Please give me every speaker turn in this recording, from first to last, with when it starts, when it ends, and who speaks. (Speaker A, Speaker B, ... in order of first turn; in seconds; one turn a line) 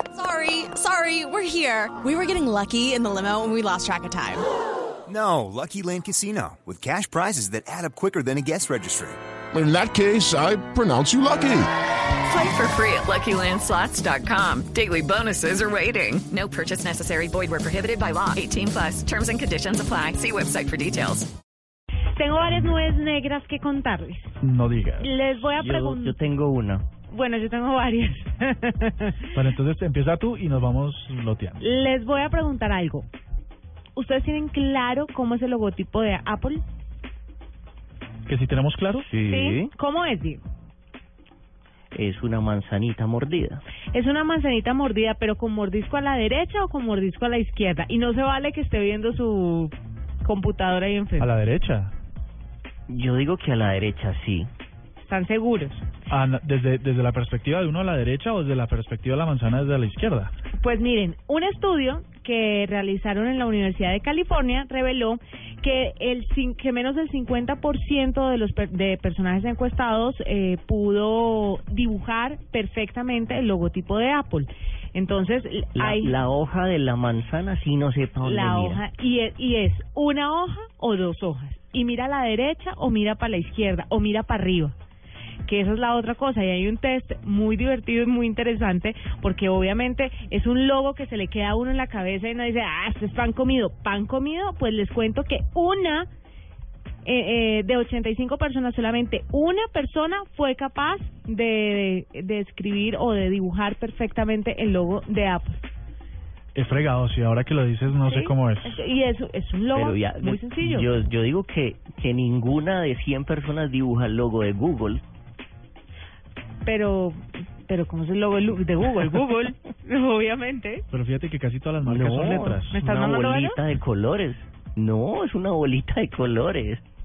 Speaker A: 0.1-4.5
Speaker B: 5.1-9.2
Speaker C: 9.5-11.7
Speaker D: 12.2-21.3
Speaker E: 22.2-24.3
Speaker F: 24.4-25.1
Speaker E: 25.0-26.2
Speaker G: 25.5-26.9
Speaker E: 27.1-29.3
Speaker F: 29.3-31.6
Speaker E: 31.6-33.1
Speaker E: 34.0-36.6
Speaker F: 38.3-39.1
Speaker G: 39.0-39.7
Speaker E: 39.3-40.4
Speaker G: 41.9-43.6
Speaker E: 43.9-51.3
Speaker F: 51.2-51.9
Speaker G: 52.9-54.5
Speaker E: 55.0-55.8
Speaker F: 56.1-60.3
Speaker E: 60.6-76.2
Speaker G: 75.8-78.8
Speaker E: 78.2-84.7
Speaker E: 85.5-96.1
Speaker E: 97.0-105.6
Speaker F: 106.5-108.7
Speaker E: 108.0-110.9
Speaker G: 109.7-115.0
Speaker E: 116.7-120.8
Speaker F: 120.9-122.8
Speaker G: 121.8-126.8
Speaker E: 122.7-123.6